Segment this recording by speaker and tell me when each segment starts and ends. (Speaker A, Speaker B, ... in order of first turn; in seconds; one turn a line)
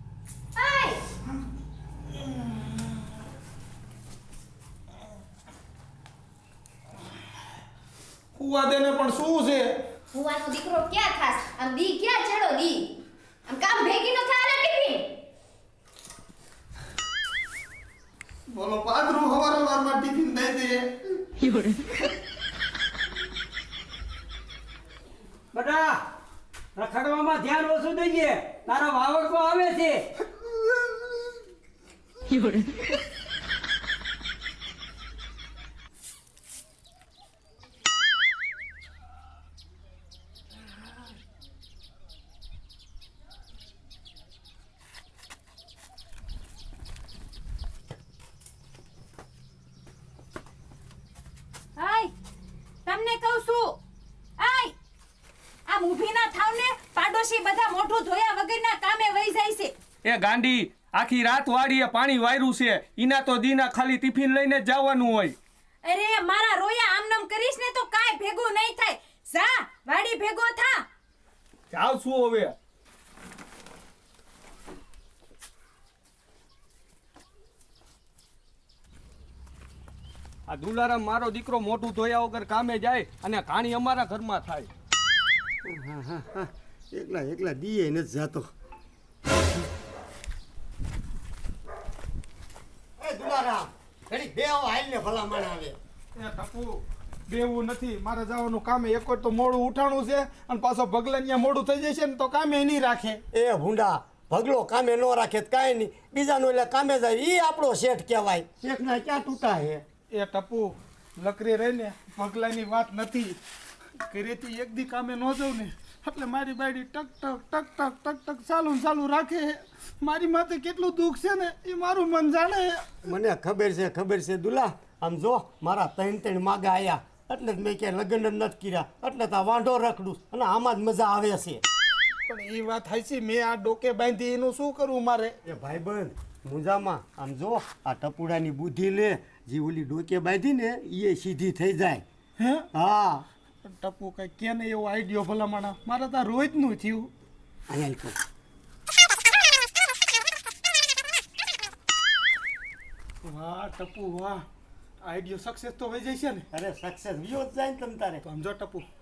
Speaker A: 0.6-1.0
Speaker B: 8.3-9.7
Speaker A: 10.1-12.9
Speaker A: 13.5-15.1
Speaker B: 18.5-20.9
Speaker C: 21.4-21.8
Speaker C: 25.5-26.0
Speaker C: 26.7-30.0
Speaker C: 32.3-32.6
Speaker D: 51.8-52.1
Speaker D: 52.8-53.8
Speaker D: 54.4-54.7
Speaker D: 55.7-59.7
Speaker E: 60.0-65.3
Speaker D: 65.8-70.8
Speaker E: 71.7-72.5
Speaker E: 80.5-84.7
Speaker F: 85.6-88.5
Speaker F: 93.0-95.8
Speaker B: 96.1-103.2
Speaker F: 103.3-109.8
Speaker B: 110.1-113.4
Speaker B: 114.0-122.9
Speaker F: 123.0-131.6
Speaker B: 132.3-135.3
Speaker F: 135.4-142.0
Speaker B: 142.4-142.7
Speaker F: 142.7-143.2
Speaker B: 143.6-147.1
Speaker F: 147.7-148.2
Speaker B: 153.2-154.4
Speaker B: 155.0-156.4
Speaker F: 156.5-158.2
Speaker B: 158.2-158.8